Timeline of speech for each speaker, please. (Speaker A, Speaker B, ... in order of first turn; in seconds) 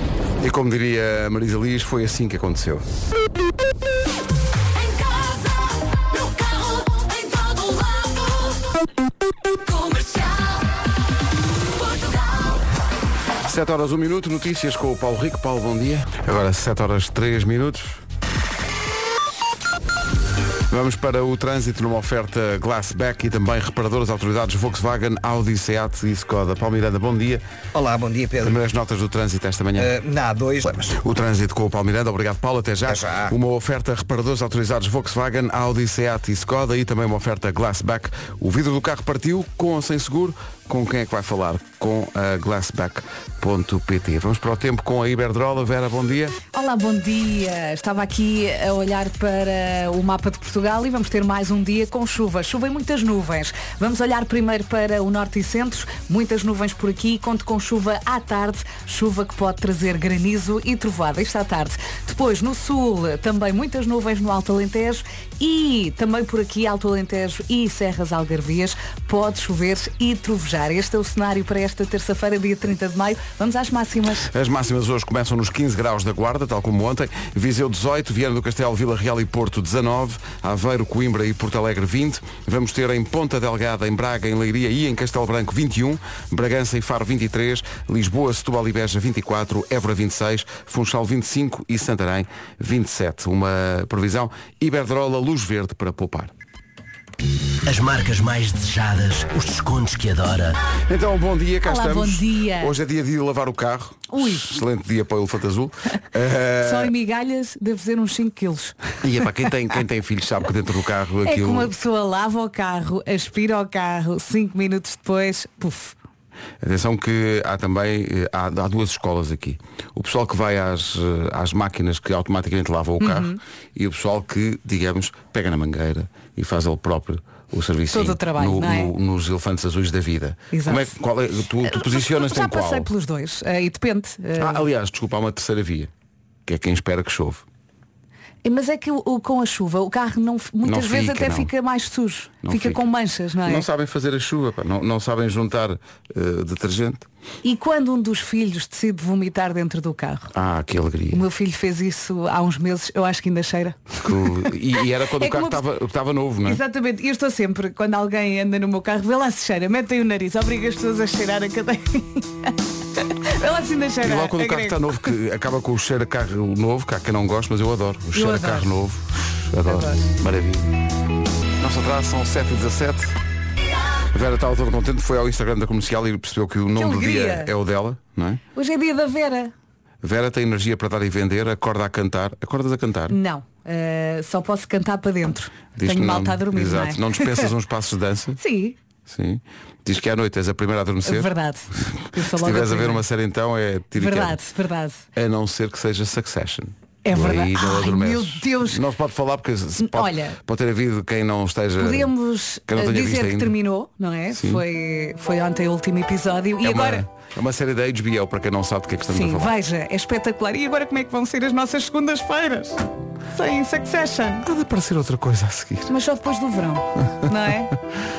Speaker A: 0.4-2.9, 13.4-18.0, 20.7-27.4, 28.4-29.9, 30.9-46.4, 74.3-96.3, 100.9-106.9, 109.0-111.7, 116.6-132.9, 134.4-135.9, 136.4-137.4, 140.6-141.5, 142.4-142.8, 143.4-147.1, 150.3-151.2, 154.0-156.6, 164.0-170.7, 171.6-173.2, 174.1-178.4, 180.0-183.2, 185.8-188.4, 189.1-194.4, 195.1-202.1, 202.7-203.6, 204.3-204.6, 206.6-209.5, 214.4-215.9
Speaker B: 4.8-8.6, 9.6-10.7, 11.7-12.6
Speaker C: 27.8-28.6, 29.8-31.0, 32.9-33.3
Speaker D: 46.5-74.3, 101.6-102.8, 104.1-104.5, 106.6-108.8, 111.2-116.0, 123.0-123.4, 127.9-128.9, 130.5-130.9, 131.6-134.6, 138.4-143.7, 147.4-150.3, 151.1-154.5, 155.0-155.6, 156.4-165.1, 168.1-168.7, 169.7-170.1, 176.8-177.5, 178.5-179.5, 183.1-187.5, 188.4-188.8, 191.0-193.0, 193.9-195.1, 197.0-198.8, 199.8-200.4, 201.8-207.0, 209.1-214.4, 215.9-217.7
Speaker E: 97.7-100.6